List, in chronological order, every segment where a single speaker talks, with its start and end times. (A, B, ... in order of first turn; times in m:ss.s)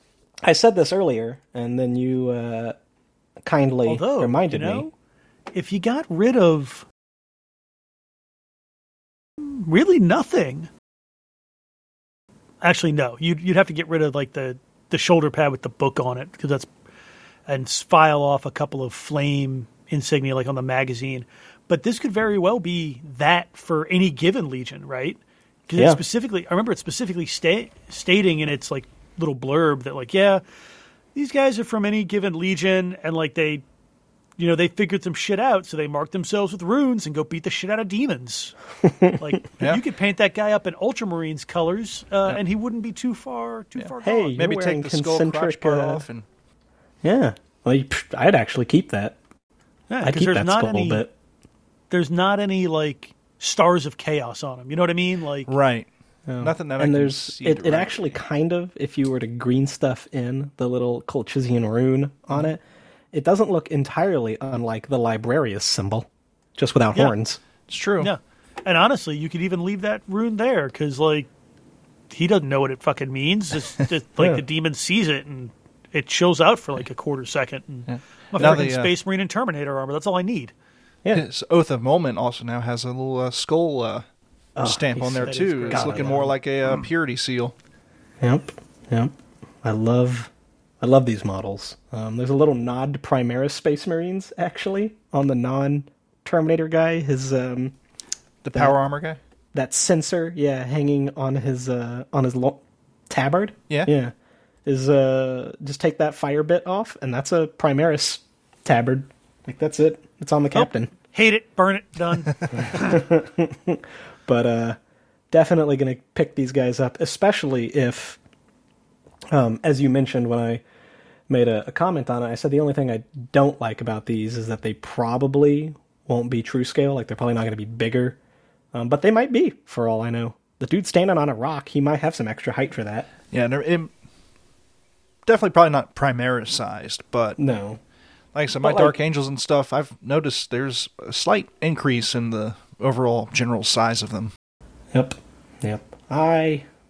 0:00.4-0:02.8 A
0:03.4-0:04.9 A
0:03.9-0:04.9 B
0:05.5-0:06.9 B
0:09.4-0:10.7 B
0:12.6-0:16.7 B
0:17.5-0:30.4 B
0:31.2-0:33.6 B
0:34.4-0:38.6 B
0:38.8-0:39.2 A
0:39.2-0:44.4 B
0:43.8-0:46.2 C
0:44.0-0:46.1 A
0:47.0-0:49.2 A
0:49.9-0:51.1 B
0:50.0-0:51.1 A
0:51.9-0:55.5 B
0:55.5-0:55.9 C
0:56.3-1:02.6 A
0:56.4-0:58.1 C
1:03.1-1:07.4 A
1:07.7-1:08.1 C
1:08.0-1:11.3 B
1:12.1-1:20.5 B
1:17.9-1:18.9 C
1:21.1-1:24.0 C
1:24.6-1:26.2 A
1:24.6-1:27.5 C
1:25.2-1:26.3 B
1:28.2-1:29.1 A
1:29.6-1:30.3 A
1:30.8-1:37.8 A
1:38.4-1:39.2 C
1:39.5-1:44.1 A
1:44.7-1:50.9 A
1:50.5-1:53.0 B
1:52.6-1:54.8 A
1:55.3-1:58.2 A
1:59.3-2:00.6 A
2:01.3-2:08.2 A
2:08.7-2:13.1 A
2:13.3-2:13.9 C
2:15.3-2:17.4 C
2:17.4-2:17.8 A
2:18.4-2:24.3 C
2:18.6-2:19.0 A
2:24.9-2:26.7 A